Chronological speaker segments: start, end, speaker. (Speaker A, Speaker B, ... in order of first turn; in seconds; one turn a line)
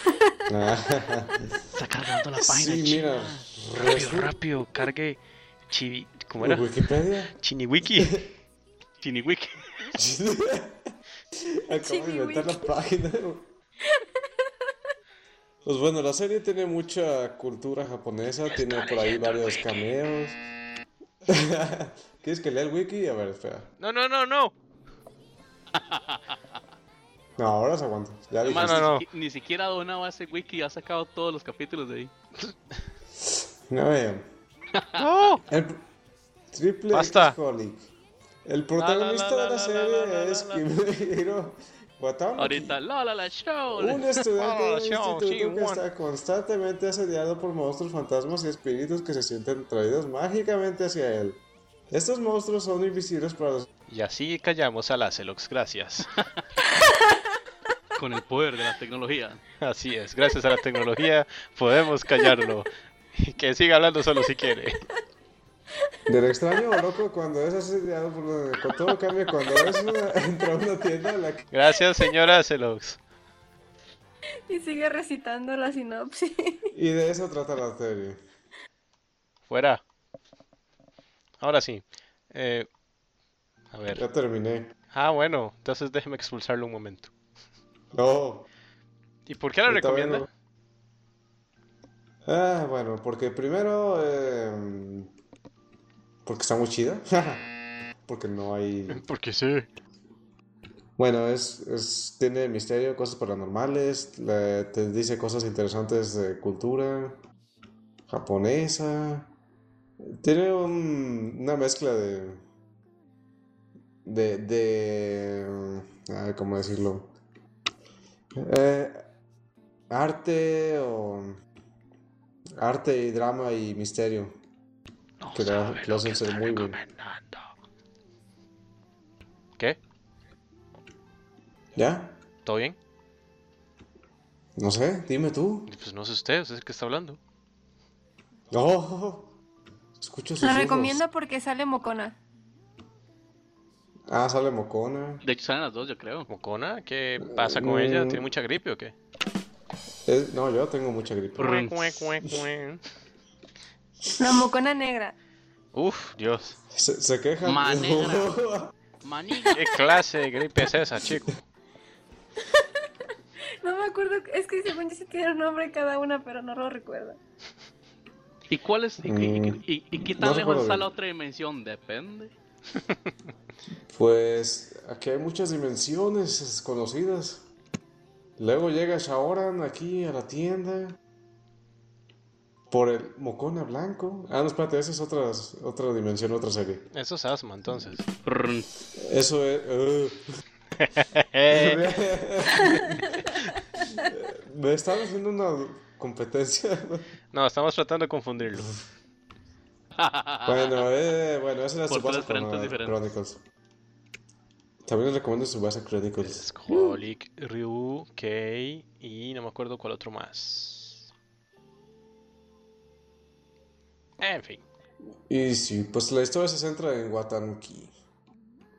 Speaker A: 0.5-1.6
Speaker B: 1.7-3.5
Speaker A: 2.4-4.3
Speaker C: 3.9-6.7
Speaker A: 6.4-7.3
Speaker C: 7.3-8.2
Speaker A: 8.0-8.3
Speaker B: 9.0-9.9
Speaker A: 9.9-13.5
Speaker D: 11.7-12.7
Speaker D: 13.8-14.5
Speaker A: 15.6-20.4
Speaker C: 18.6-19.7
Speaker A: 21.2-23.7
Speaker C: 23.8-24.5
Speaker B: 25.7-26.4
Speaker A: 27.4-28.9
Speaker B: 28.4-32.1
Speaker C: 28.5-29.0
Speaker A: 33.2-34.2
Speaker B: 34.7-35.0
Speaker C: 35.0-35.4
Speaker A: 35.5-35.8
Speaker A: 36.5-37.9
Speaker C: 36.9-37.4
Speaker A: 38.4-42.8
Speaker C: 38.8-40.6
Speaker B: 42.4-44.1
Speaker A: 43.7-53.7
Speaker C: 44.3-45.8
Speaker C: 53.9-56.2
Speaker D: 56.8-57.2
Speaker B: 58.0-59.4
Speaker C: 59.6-64.8
Speaker A: 66.0-71.5
Speaker C: 71.5-73.0
Speaker D: 74.5-76.7
Speaker A: 76.7-78.2
Speaker C: 79.5-79.8
Speaker C: 81.4-82.7
Speaker C: 83.7-84.0
Speaker A: 83.9-84.7
Speaker C: 84.9-87.1
Speaker A: 87.9-88.5
Speaker C: 89.2-90.3
Speaker A: 89.7-90.3
Speaker A: 92.2-95.1
Speaker A: 96.2-97.5
Speaker A: 98.1-99.0
Speaker C: 98.9-99.7
Speaker A: 101.0-107.2
Speaker A: 108.1-109.3
Speaker A: 110.0-112.4
Speaker A: 114.0-117.1
Speaker A: 118.3-119.0
Speaker A: 119.9-121.4
Speaker A: 122.6-124.3
Speaker C: 125.2-127.5
Speaker A: 125.3-126.8
Speaker A: 131.7-132.2
Speaker C: 132.4-132.8
Speaker A: 134.6-135.7
Speaker C: 135.7-137.2
Speaker A: 138.5-139.3
Speaker A: 140.0-141.0
Speaker D: 140.4-142.2
Speaker A: 144.1-145.2
Speaker B: 145.2-146.3
Speaker C: 146.3-148.9
Speaker A: 147.2-148.3
Speaker A: 150.1-151.6
Speaker B: 151.4-152.0
Speaker C: 151.4-152.8
Speaker A: 154.1-154.4
Speaker D: 154.2-155.1
Speaker C: 155.7-156.6
Speaker A: 156.7-158.7
Speaker B: 157.4-158.3
Speaker B: 159.0-159.7
Speaker C: 159.5-161.4
Speaker D: 163.6-167.2
Speaker B: 168.5-172.3
Speaker A: 169.0-170.9
Speaker A: 173.9-177.4
Speaker A: 178.4-181.0
Speaker A: 182.7-186.9
Speaker C: 186.9-188.1
Speaker B: 188.2-188.7
Speaker A: 188.9-190.3
Speaker C: 190.8-191.9
Speaker A: 191.5-193.1
Speaker A: 194.0-197.1
Speaker C: 197.3-198.7
Speaker B: 199.9-200.8
Speaker A: 200.4-203.4
Speaker B: 201.9-203.0
Speaker A: 204.8-206.4
Speaker C: 206.2-211.1
Speaker C: 214.2-214.6
Speaker A: 215.3-217.9